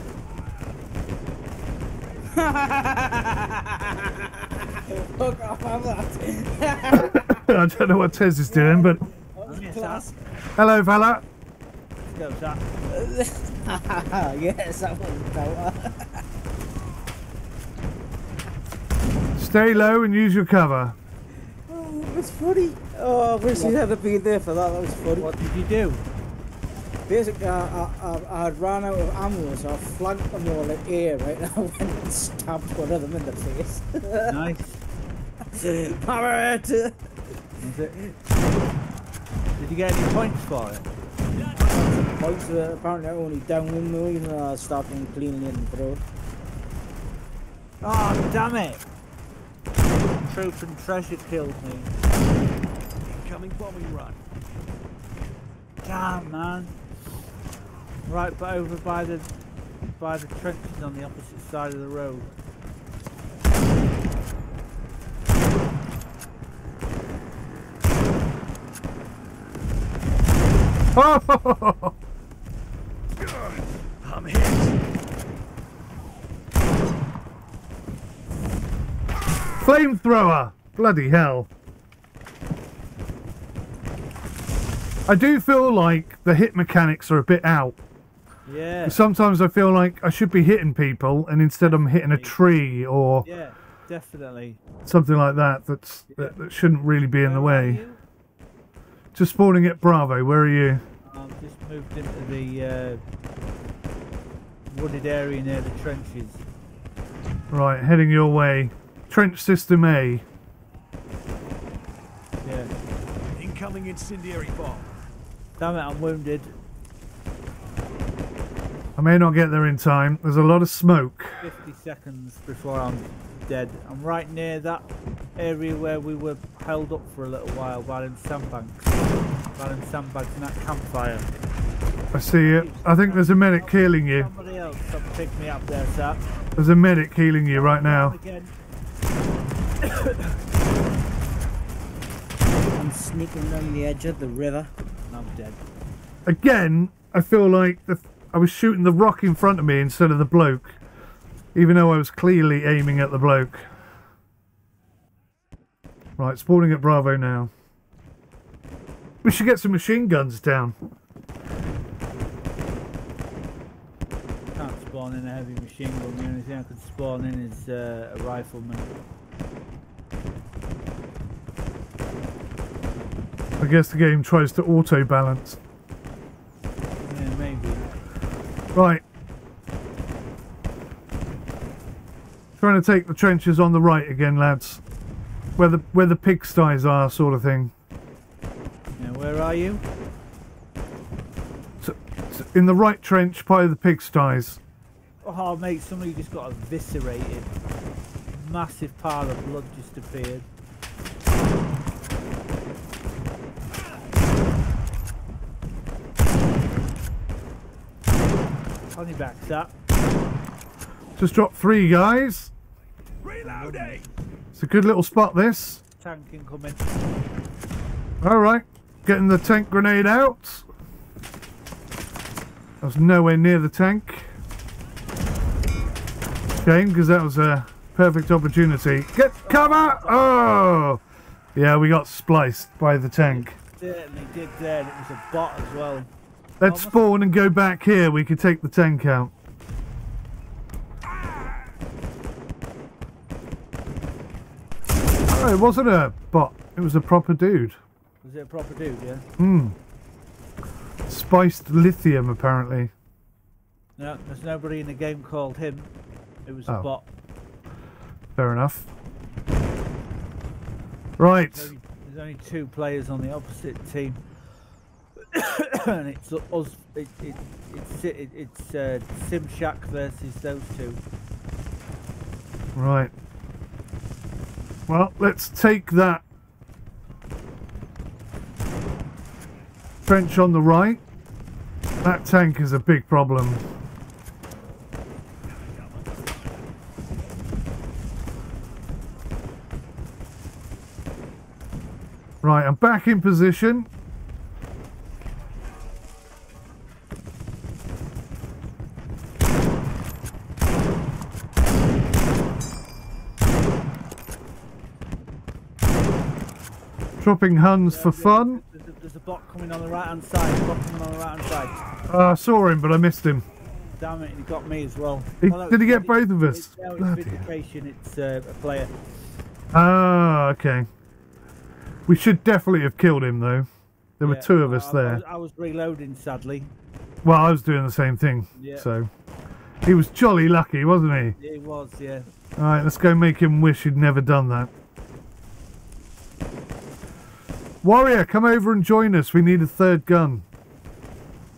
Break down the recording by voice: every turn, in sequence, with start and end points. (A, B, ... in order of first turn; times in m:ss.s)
0:02.3-0:07.4 A
0:07.0-0:09.0 B
0:08.5-0:10.2 A
0:09.5-0:10.1 C
0:10.6-0:11.2 B
0:12.2-0:12.6 C
0:12.9-0:16.2 A
0:19.4-0:21.0 B
0:21.7-0:25.3 A
0:25.2-0:26.0 C
0:27.1-0:34.4 A
0:34.3-0:34.9 C
0:35.5-0:37.1 A
0:37.6-0:38.0 C
0:39.6-0:40.9 C
0:41.5-0:46.0 A
0:47.8-0:48.8 C
0:50.2-0:51.9 C
0:53.0-0:54.2 D
0:55.8-0:56.7 C
0:58.1-0:59.3 C
1:00.0-1:02.3 C
1:11.0-1:11.9 B
1:13.2-1:14.7 D
1:19.6-1:21.5 B
1:25.1-1:27.8 B
1:28.5-1:29.0 C
1:28.9-1:33.3 B
1:31.6-1:32.4 C
1:33.2-1:34.6 C
1:34.8-1:37.8 B
1:36.1-1:36.4 C
1:37.2-1:38.0 C
1:39.1-1:40.8 B
1:41.1-1:43.0 C
1:44.7-1:46.4 C
1:47.5-1:50.2 B
1:52.4-1:52.7 C
1:53.4-1:54.9 D
1:55.6-1:56.6 C
1:59.0-2:01.4 B
2:01.4-2:04.8 C
2:05.4-2:09.0 C
2:09.6-2:11.3 C
2:12.1-2:14.3 B
2:12.4-2:16.2 C
2:16.6-2:18.2 B
2:17.5-2:18.5 C
2:19.8-2:20.4 C
2:22.7-2:24.7 A
2:25.1-2:25.6 C
2:26.3-2:30.8 B
2:31.6-2:33.7 B
2:36.2-2:37.5 B
2:39.2-2:40.8 B
2:44.6-2:48.9 C
2:53.6-2:55.6 B
2:57.0-2:57.9 C
2:58.8-2:59.0 B
3:02.6-3:04.8 B
3:05.6-3:07.7 B
3:09.0-3:09.8 C
3:11.8-3:14.6 B
3:15.2-3:17.5 C
3:18.3-3:20.5 C
3:29.0-3:29.7 C
3:31.2-3:32.5 B
3:33.2-3:34.1 D
3:33.4-3:34.0 C
3:34.6-3:35.8 B
3:36.0-3:36.9 C
3:38.2-3:40.7 B
3:42.8-3:44.3 B
3:46.6-3:51.0 B
3:49.4-3:50.2 C
3:51.6-3:53.5 B
3:53.2-3:56.1 C
3:56.6-3:59.3 B
3:56.6-3:57.0 C
4:05.3-4:07.8 B
4:08.2-4:09.3 C
4:09.4-4:09.8 B
4:11.1-4:12.9 B
4:14.0-4:15.9 C
4:16.5-4:17.0 C
4:18.4-4:18.9 B
4:21.2-4:21.7 B
4:21.5-4:24.2 C
4:25.3-4:31.0 C
4:32.8-4:33.1 B
4:34.9-4:36.2 B
4:40.0-4:41.0 B
4:42.0-4:43.6 B
4:52.4-4:53.9 B
5:07.2-5:08.6 B
5:07.9-5:11.8 C
5:12.1-5:13.5 B
5:14.0-5:18.9 C
5:15.4-5:17.4 B
5:19.7-5:20.9 B
5:22.1-5:23.7 B
5:24.2-5:25.2 B
5:24.2-5:26.7 C
5:27.2-5:29.1 B
5:28.6-5:28.9 C
5:29.8-5:31.4 B
5:31.4-5:32.3 C
5:32.6-5:34.7 B
5:37.8-5:40.4 B